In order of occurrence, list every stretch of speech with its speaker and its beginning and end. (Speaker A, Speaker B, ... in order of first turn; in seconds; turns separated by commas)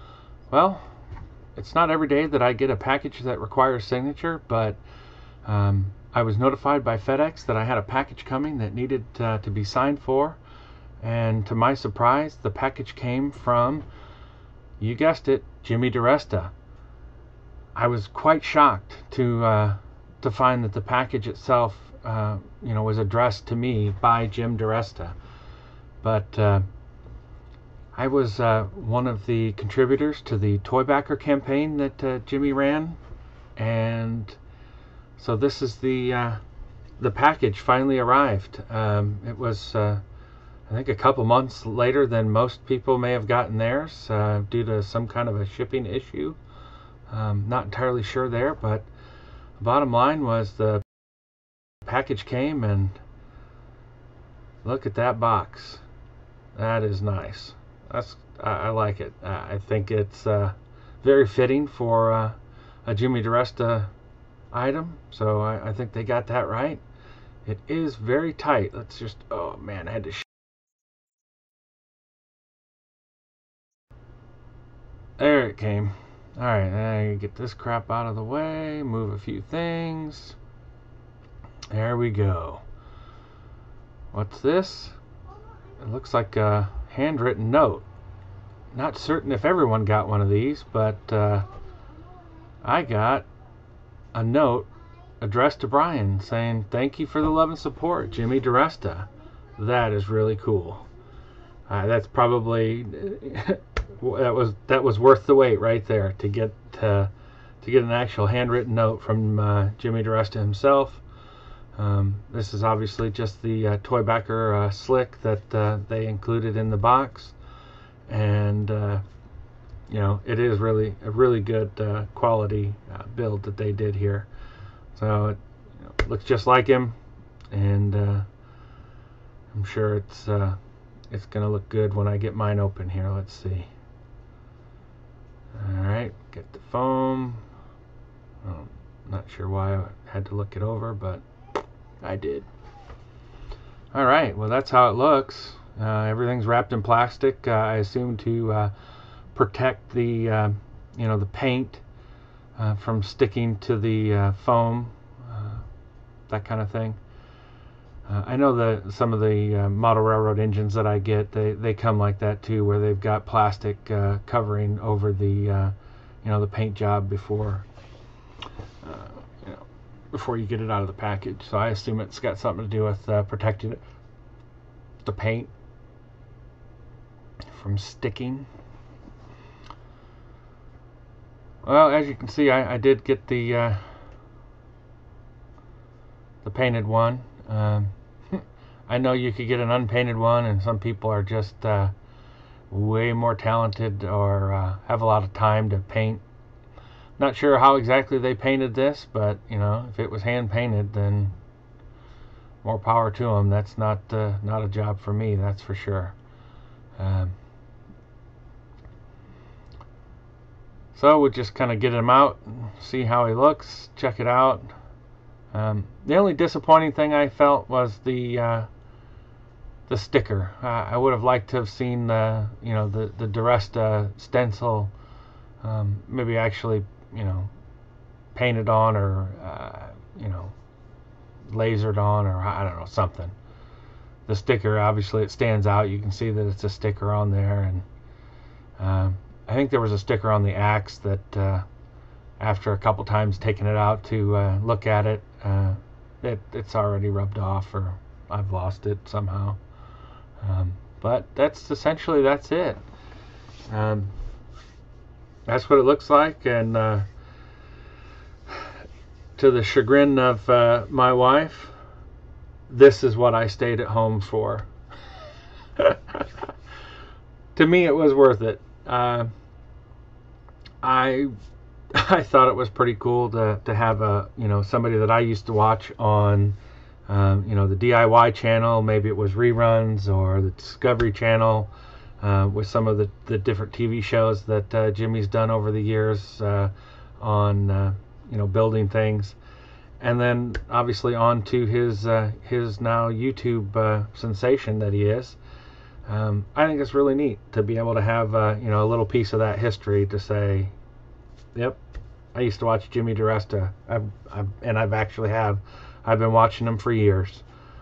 Speaker A: 0.5-0.9, Speaker A: 1.6-4.8, Speaker A: 5.4-10.4, Speaker A: 11.0-13.8, Speaker A: 14.8-16.5, Speaker A: 17.7-25.1, Speaker A: 26.0-26.6, Speaker A: 27.9-33.0, Speaker A: 33.5-34.4, Speaker A: 35.2-36.4, Speaker A: 37.0-40.0, Speaker A: 40.7-46.4, Speaker A: 47.1-48.9, Speaker A: 49.6-50.8, Speaker A: 51.8-53.0, Speaker A: 54.6-55.8, Speaker A: 56.5-63.9, Speaker A: 64.5-66.8, Speaker A: 67.4-70.3, Speaker A: 75.2-80.4, Speaker A: 81.7-82.6, Speaker A: 84.1-85.0, Speaker A: 85.8-87.8, Speaker A: 88.7-91.5, Speaker A: 92.6-93.3, Speaker A: 94.1-94.7, Speaker A: 95.2-100.8, Speaker A: 101.7-111.0, Speaker A: 111.7-117.3, Speaker A: 118.1-119.0, Speaker A: 119.9-124.3, Speaker A: 124.9-127.0, Speaker A: 127.5-128.3, Speaker A: 129.5-130.6, Speaker A: 131.1-133.7, Speaker A: 135.5-137.4, Speaker A: 138.4-141.2, Speaker A: 142.0-142.5, Speaker A: 143.9-148.7, Speaker A: 149.3-151.8, Speaker A: 152.6-155.7, Speaker A: 156.3-157.0, Speaker A: 158.1-167.7, Speaker A: 168.8-173.8, Speaker A: 175.0-175.5, Speaker A: 177.5-178.5, Speaker A: 181.6-183.9, Speaker A: 186.4-191.9, Speaker A: 192.7-196.2, Speaker A: 197.2-201.3, Speaker A: 202.6-206.1, Speaker A: 207.0-207.3, Speaker A: 210.9-214.7, Speaker A: 215.5-218.7, Speaker A: 219.9-224.9, Speaker A: 225.6-227.5, Speaker A: 228.3-230.5, Speaker A: 231.5-233.3, Speaker A: 234.3-237.8, Speaker A: 238.8-241.7, Speaker A: 242.4-249.6, Speaker A: 250.4-252.8, Speaker A: 253.7-254.1, Speaker A: 255.5-257.1, Speaker A: 259.4-261.7, Speaker A: 262.7-264.7, Speaker A: 265.8-266.2, Speaker A: 267.5-269.3, Speaker A: 270.8-271.3, Speaker A: 271.9-276.6, Speaker A: 277.1-289.4, Speaker A: 290.0-295.4, Speaker A: 296.1-300.7, Speaker A: 302.3-307.4